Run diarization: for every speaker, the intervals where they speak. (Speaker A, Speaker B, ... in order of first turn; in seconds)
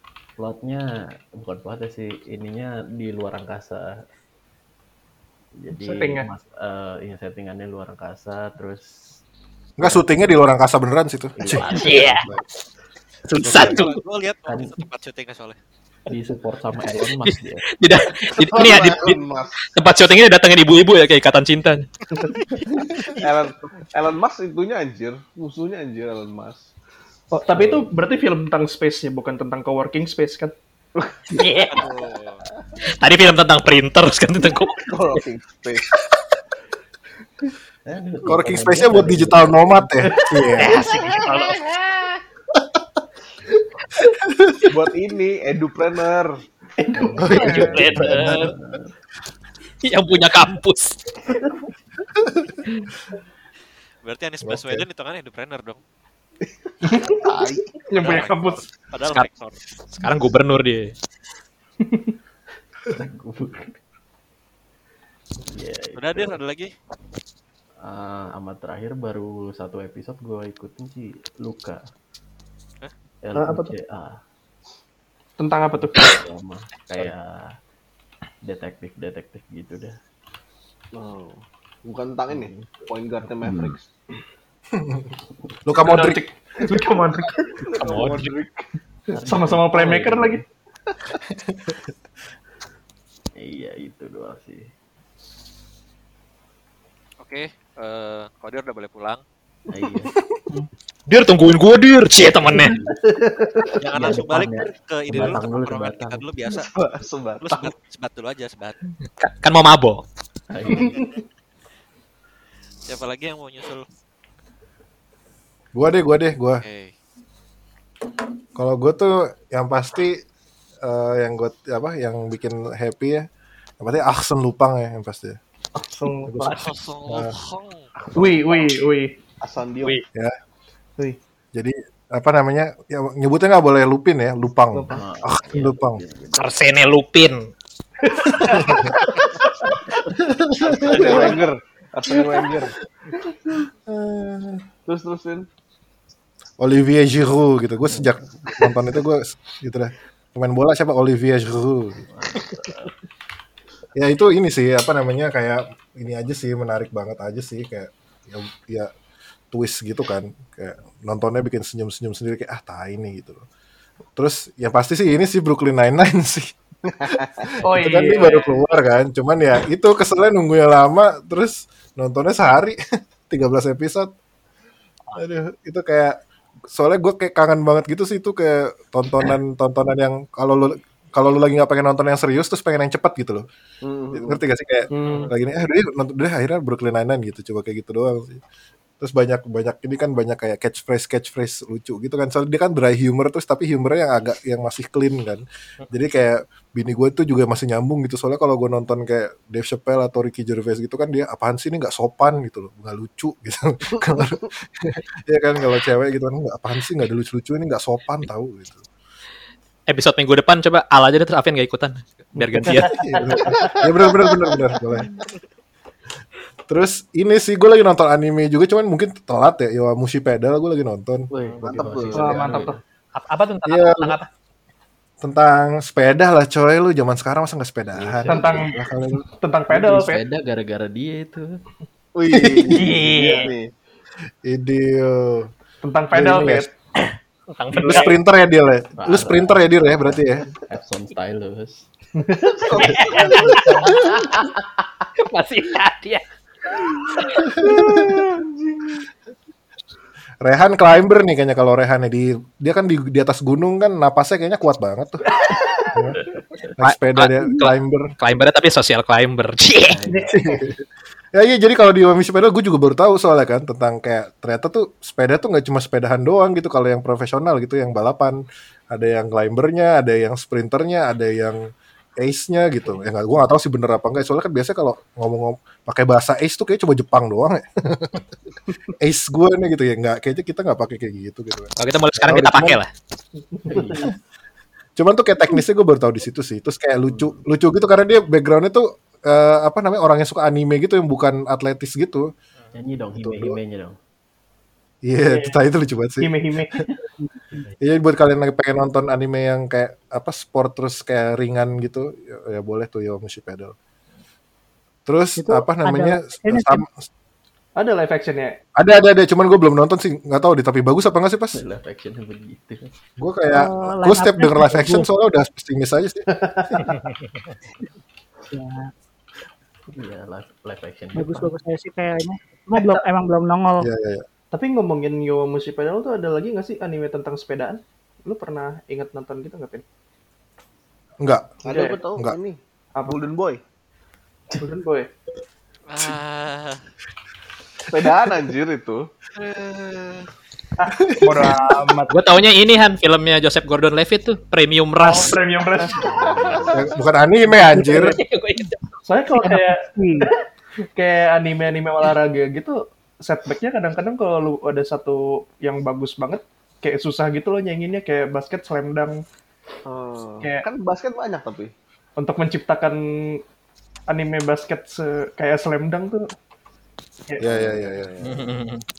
Speaker A: 0.4-3.9, 5.6-9.2, 9.8-10.1, 11.4-12.3, 14.5-14.8, 16.1-17.6, 27.5-27.9, 37.9-40.1, 46.9-48.9, 62.9-63.8, 65.5-66.4, 67.8-71.8, 73.2-74.2, 75.7-77.5, 78.4-80.0, 82.3-82.9, 83.4-83.7, 89.1-90.4, 93.4-94.7, 99.7-100.2, 103.9-106.2, 110.5-111.0, 134.9-136.5, 147.9-148.6, 152.1-152.9, 221.3-222.8, 227.9-228.5, 229.7-231.6, 239.0-241.9, 259.9-260.6, 283.7-284.1, 292.8-294.0, 311.5-312.8, 319.9-321.6, 345.9-346.9
Speaker B: 5.7-6.3, 27.3-30.5, 40.2-40.5, 46.8-47.6, 56.9-58.6, 73.3-73.7, 75.4-76.1, 85.8-87.5, 89.2-90.4, 102.9-103.7, 110.7-111.1, 125.8-126.7, 128.2-129.2, 134.7-135.0, 141.0-141.4, 167.6-168.6, 184.9-185.3, 222.1-222.8, 228.3-230.2, 235.8-236.7, 237.7-238.1, 242.2-243.6, 283.5-284.1, 295.2-295.6, 296.2-297.0, 307.8-308.6, 322.8-323.1, 324.5-329.8, 331.7-332.0, 334.6-335.1, 340.8-342.2, 345.0-346.0, 349.1-350.3, 351.0-359.2, 360.4-360.7, 362.2-363.4, 364.1-366.3, 367.3-367.8
Speaker C: 9.8-12.4, 13.4-13.7, 38.3-40.8, 44.2-44.7, 47.2-48.5, 54.4-54.9, 84.8-85.1, 85.7-86.2, 91.5-91.8, 115.7-116.6, 118.5-120.2, 120.8-123.3, 123.8-125.4, 126.3-126.5, 131.6-136.0, 138.4-138.9, 140.2-141.3, 143.9-144.6, 146.6-152.1, 153.9-158.9, 159.5-163.4, 164.2-166.5, 167.1-172.8, 173.3-174.1, 175.1-176.2, 176.7-183.4, 184.1-188.4, 189.0-208.8, 212.6-215.1, 216.7-221.3, 223.7-224.2, 225.2-229.2, 232.3-232.8, 234.4-235.5, 236.1-236.7, 237.8-240.4, 247.4-248.1, 250.4-255.2, 255.9-256.2, 256.8-258.1, 260.3-260.8, 261.3-268.4, 268.9-271.6, 272.2-278.2, 279.0-282.8, 285.0-292.3, 293.2-293.6, 295.1-296.3, 297.8-303.7, 305.1-307.1, 308.8-311.6, 313.2-316.8, 323.8-324.2, 331.2-331.6, 341.0-341.7, 346.7-348.2, 367.4-368.1
Speaker D: 11.7-12.3, 13.3-14.0, 17.0-21.9, 31.3-31.9, 33.0-34.9, 40.6-41.6, 47.4-48.5, 49.8-51.0, 59.9-60.9, 87.8-88.3, 101.1-102.8, 109.2-110.0, 136.4-137.5, 138.3-138.7, 209.9-213.6, 223.2-224.3, 232.7-233.5, 237.0-238.2, 242.8-244.4, 245.2-246.2, 247.2-247.8, 255.5-255.9, 256.8-260.0, 281.8-282.9, 342.1-345.4, 348.0-349.0, 368.2-368.9
Speaker E: 13.5-15.6, 22.2-23.3, 31.7-32.5, 54.0-55.8, 58.0-59.6, 66.0-66.7, 97.2-99.2, 103.8-106.9, 107.4-108.9, 112.9-113.9, 116.6-117.0, 126.5-128.2, 335.9-336.8, 339.4-340.3
Speaker F: 18.2-19.6, 23.0-26.7, 31.0-31.2, 34.8-35.9, 44.7-46.4, 56.5-57.7, 80.9-83.9, 87.6-88.7, 106.5-107.7, 129.4-130.0, 140.6-142.7, 144.9-145.5, 166.9-167.5, 183.8-184.4, 203.9-204.5, 213.4-213.9, 221.6-222.6, 232.2-233.7, 242.6-243.8, 247.7-249.0, 331.6-333.6, 337.9-339.1, 359.9-361.7, 367.6-368.4
Speaker G: 297.2-297.7, 305.4-306.8, 313.5-315.1, 318.5-318.9, 321.1-323.9, 347.7-348.1, 349.5-350.3